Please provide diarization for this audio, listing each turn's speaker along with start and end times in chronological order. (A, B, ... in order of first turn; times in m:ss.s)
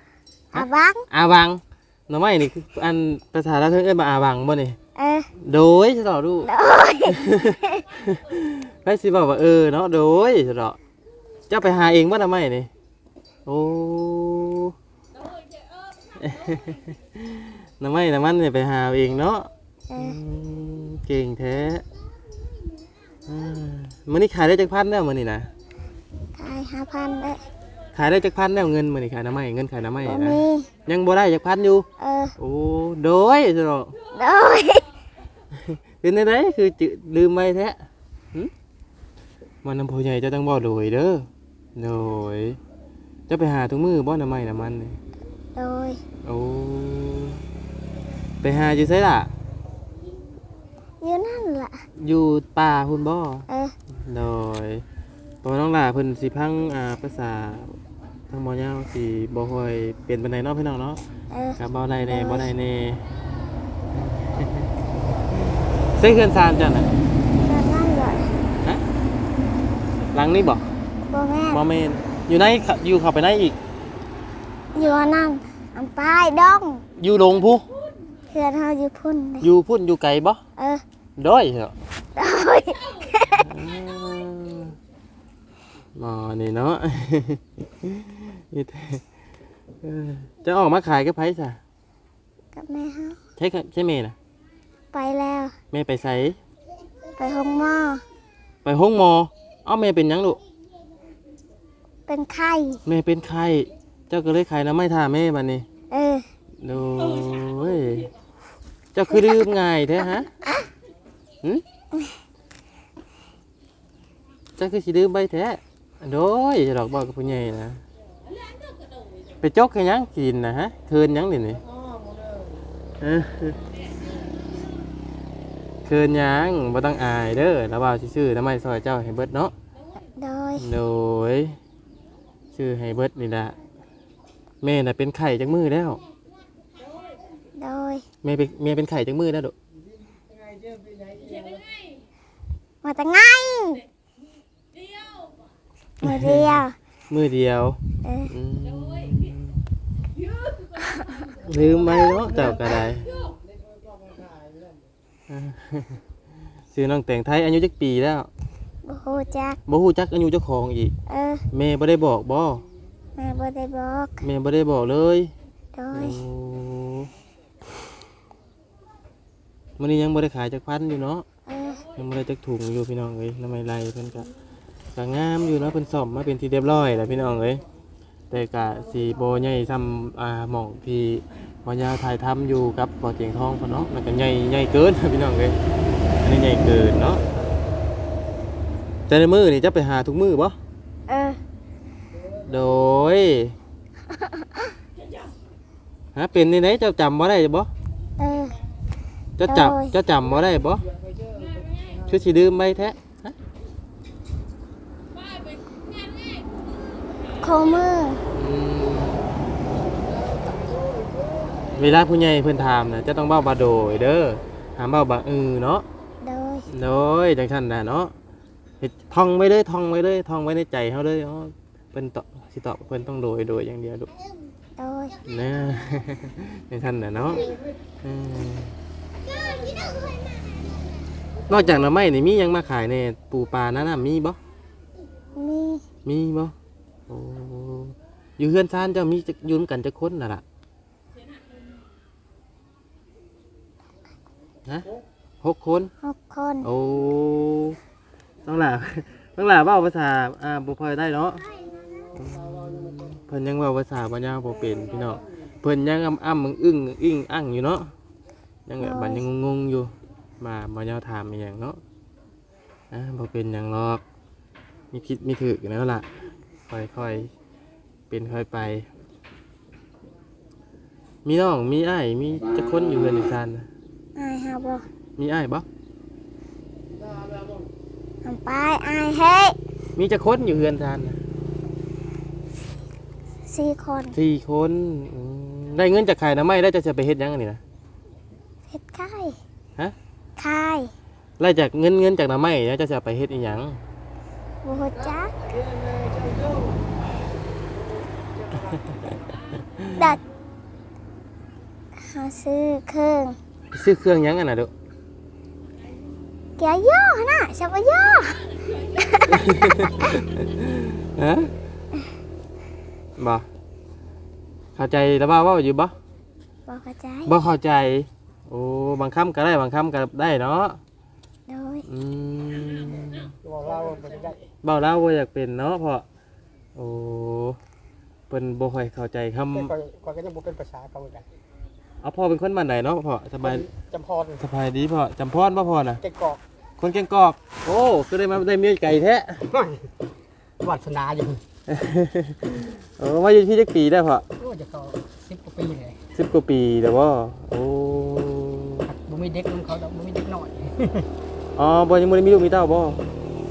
0:00.5-0:01.0 A
0:00.5-0:04.8 B
0:05.0-0:05.3 A
0:05.4-0:06.5 B
0:06.4-0:07.8 A
0:07.1-0:10.8 B
0:11.5-0:12.7 B
0:13.4-0:14.7 B
0:16.2-0:21.8 B
0:19.9-0:20.2 A
0:23.2-0:25.5 B
0:26.3-0:27.4 A
0:27.9-0:31.9 B
0:30.0-0:30.7 A
0:32.0-0:32.3 A
0:32.4-0:33.9 B
0:34.1-0:34.9 A
0:35.7-0:38.5 B
0:39.6-0:42.6 B
0:43.3-0:45.0 B
0:45.6-0:46.0 A
0:46.2-0:47.4 B
0:48.4-0:49.3 B
0:51.0-0:51.8 A
0:52.0-0:54.8 B
0:53.5-0:53.7 A
0:55.4-0:57.8 B
0:58.3-1:01.0 B
1:01.3-1:02.5 A
1:01.6-1:03.0 B
1:03.9-1:04.7 B
1:06.0-1:06.9 B
1:07.4-1:08.3 A
1:10.0-1:10.6 B
1:11.1-1:11.6 A
1:11.5-1:13.6 B
1:14.7-1:16.8 A
1:17.0-1:17.6 B
1:18.3-1:19.4 A
1:19.4-1:20.4 B
1:20.6-1:20.8 A
1:21.2-1:21.7 B
1:22.2-1:23.4 A
1:23.4-1:24.7 B
1:26.0-1:29.0 B
1:29.8-1:31.6 B
1:32.5-1:33.2 A
1:33.4-1:34.2 B
1:34.9-1:35.6 A
1:35.7-1:36.4 B
1:37.2-1:38.0 A
1:38.6-1:40.4 B
1:42.1-1:42.8 A
1:42.8-1:45.7 B
1:45.9-1:46.2 A
1:46.6-1:48.1 B
1:48.9-1:50.3 B
1:54.6-1:57.8 B
1:59.4-2:01.6 B
2:03.0-2:03.6 B
2:05.8-2:09.5 B
2:10.2-2:10.6 A
2:10.6-2:11.6 B
2:12.5-2:13.5 B
2:14.6-2:16.0 B
2:17.6-2:18.0 A
2:18.2-2:19.5 B
2:22.8-2:23.8 A
2:26.0-2:26.8 A
2:26.0-2:29.6 B
2:28.0-2:28.3 A
2:30.8-2:31.2 A
2:31.4-2:33.1 B
2:35.3-2:36.0 B
2:36.7-2:38.3 B
2:38.8-2:39.6 A
2:39.6-2:40.9 B
2:41.1-2:41.4 A
2:41.5-2:42.6 B
2:43.2-2:44.2 A
2:44.2-2:45.3 B
2:45.7-2:46.2 A
2:45.9-2:47.1 B
2:49.8-2:51.2 B
2:51.5-2:51.8 A
2:51.9-2:54.3 B
2:54.9-2:57.6 B
2:58.3-3:05.6 B
3:06.2-3:07.2 B
3:09.1-3:10.6 B
3:11.1-3:11.4 A
3:12.5-3:13.6 B
3:16.1-3:17.7 B
3:18.2-3:18.6 A
3:19.4-3:20.8 B
3:19.5-3:19.9 A
3:22.0-3:23.3 B
3:27.4-3:28.2 A
3:28.3-3:29.3 B
3:31.7-3:35.8 B
3:36.2-3:36.7 A
3:36.7-3:38.1 B
3:38.8-3:44.1 B
3:44.8-3:45.2 A
3:45.3-3:47.5 B
3:48.0-3:48.7 B
3:51.5-3:54.4 B
3:55.4-3:55.8 A
3:56.0-3:56.5 B
3:57.1-4:00.4 B
4:05.4-4:05.9 B
4:06.0-4:06.7 A
4:06.6-4:07.8 B
4:08.4-4:11.4 B
4:12.2-4:17.9 B
4:18.7-4:21.8 B
4:18.8-4:19.2 A
4:22.9-4:24.0 B
4:24.9-4:26.1 B
4:26.7-4:27.3 B
4:28.1-4:28.9 B
4:31.2-4:33.7 B
4:34.2-4:34.9 A
4:35.2-4:35.6 B
4:38.2-4:39.6 A
4:40.0-4:41.2 B
4:43.5-4:44.1 A
4:44.1-4:47.6 B
4:48.7-4:49.4 A
4:50.4-4:50.9 A
4:51.4-4:53.8 B
4:54.6-4:55.3 A
4:58.6-4:59.0 B
5:02.0-5:03.4 A
5:03.7-5:04.7 B
5:06.6-5:09.3 A
5:09.3-5:11.5 B
5:13.2-5:13.4 B
5:14.8-5:15.9 B
5:16.7-5:17.3 A
5:17.2-5:20.8 B
5:21.5-5:21.8 A
5:21.9-5:23.3 B
5:23.4-5:24.4 C
5:24.6-5:26.0 B
5:26.7-5:27.6 B
5:28.3-5:29.7 B
5:29.5-5:31.2 C
5:32.0-5:33.6 B
5:33.4-5:34.4 C
5:34.4-5:36.0 B
5:36.0-5:36.4 C
5:36.8-5:39.4 B
5:39.4-5:39.8 C
5:40.6-5:41.4 C
5:41.7-5:44.2 B
5:44.4-5:46.0 C
5:46.1-5:48.9 B
5:48.9-5:51.1 C
5:51.6-5:53.0 B